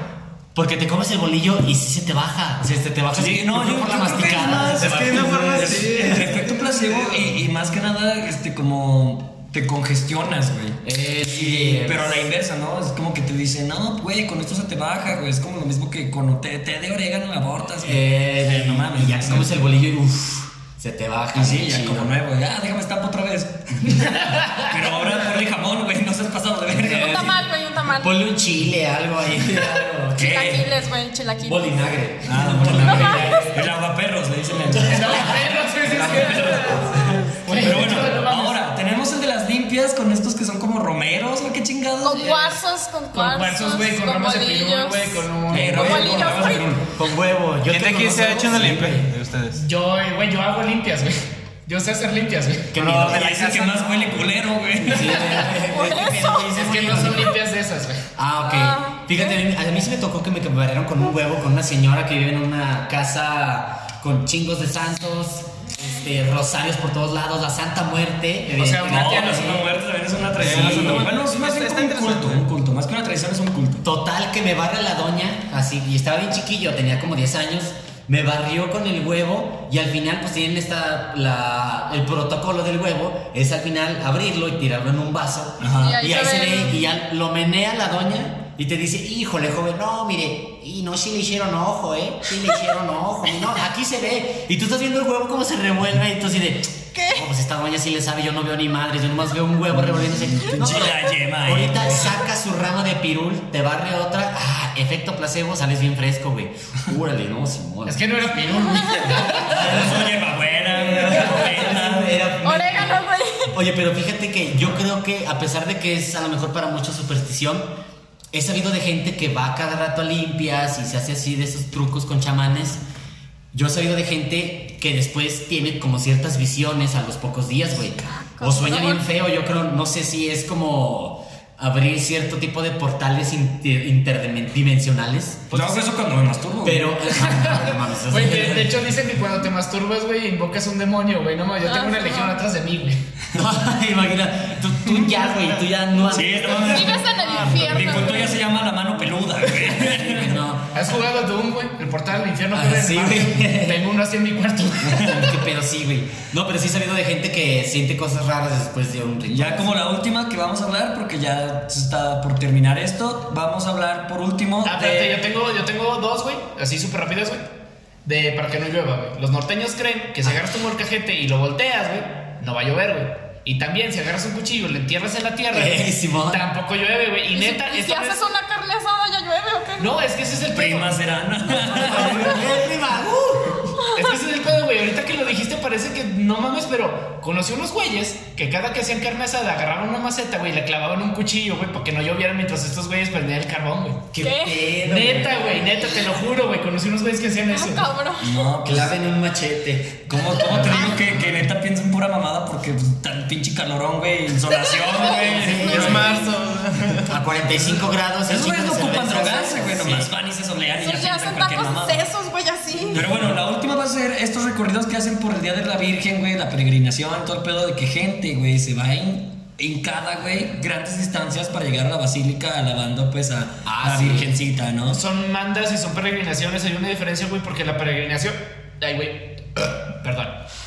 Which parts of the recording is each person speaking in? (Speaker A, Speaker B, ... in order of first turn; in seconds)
Speaker A: 0.6-5.7, 10.8-12.3, 17.8-22.1, 26.7-27.3, 28.0-30.4, 31.4-33.7, 37.5-37.8, 45.5-49.1, 52.7-53.4, 54.8-57.4, 58.2-69.6, 70.4-71.1, 73.8-108.1, 109.3-117.7, 118.3-122.8, 123.5-135.6, 136.6-138.8, 143.3-146.9, 149.8-150.7, 152.5-153.8, 155.1-159.8, 175.5-176.5, 181.5-183.8, 194.1-196.1, 198.6-201.4, 205.1-206.2, 207.1-210.1, 223.7-224.3
Speaker B: 3.1-19.6, 21.3-27.4, 30.1-30.7, 32.2-42.5, 45.5-46.9, 52.9-55.6, 68.8-73.8, 85.6-86.1, 99.7-102.2, 109.3-112.3, 135.5-137.3, 146.1-150.4, 154.8-155.3, 159.3-165.2, 180.5-182.5, 198.2-199.0, 200.1-206.1, 207.6-212.0, 212.9-225.0
Speaker C: 4.5-7.4, 47.7-49.6, 52.8-54.2, 70.4-72.5, 205.6-207.2
Speaker D: 26.8-28.2, 30.2-31.8, 32.8-33.5, 42.0-46.7, 55.7-56.5, 58.4-59.4, 85.8-86.8, 97.0-97.2, 112.4-113.6, 128.1-129.0, 141.6-142.4, 146.6-148.4, 177.3-180.0, 194.2-194.7, 197.5-198.5, 200.7-201.0, 204.5-206.3, 210.8-213.0
Speaker E: 32.7-33.5, 34.7-38.6, 42.2-42.5, 43.1-46.3, 49.6-52.8, 56.5-58.0, 68.6-69.6, 107.9-109.6, 135.5-135.9, 137.3-143.0, 147.2-148.1, 150.7-155.3, 164.6-167.5, 168.1-178.2, 179.8-181.0, 181.8-182.1, 183.9-194.1, 194.8-197.9, 224.9-230.4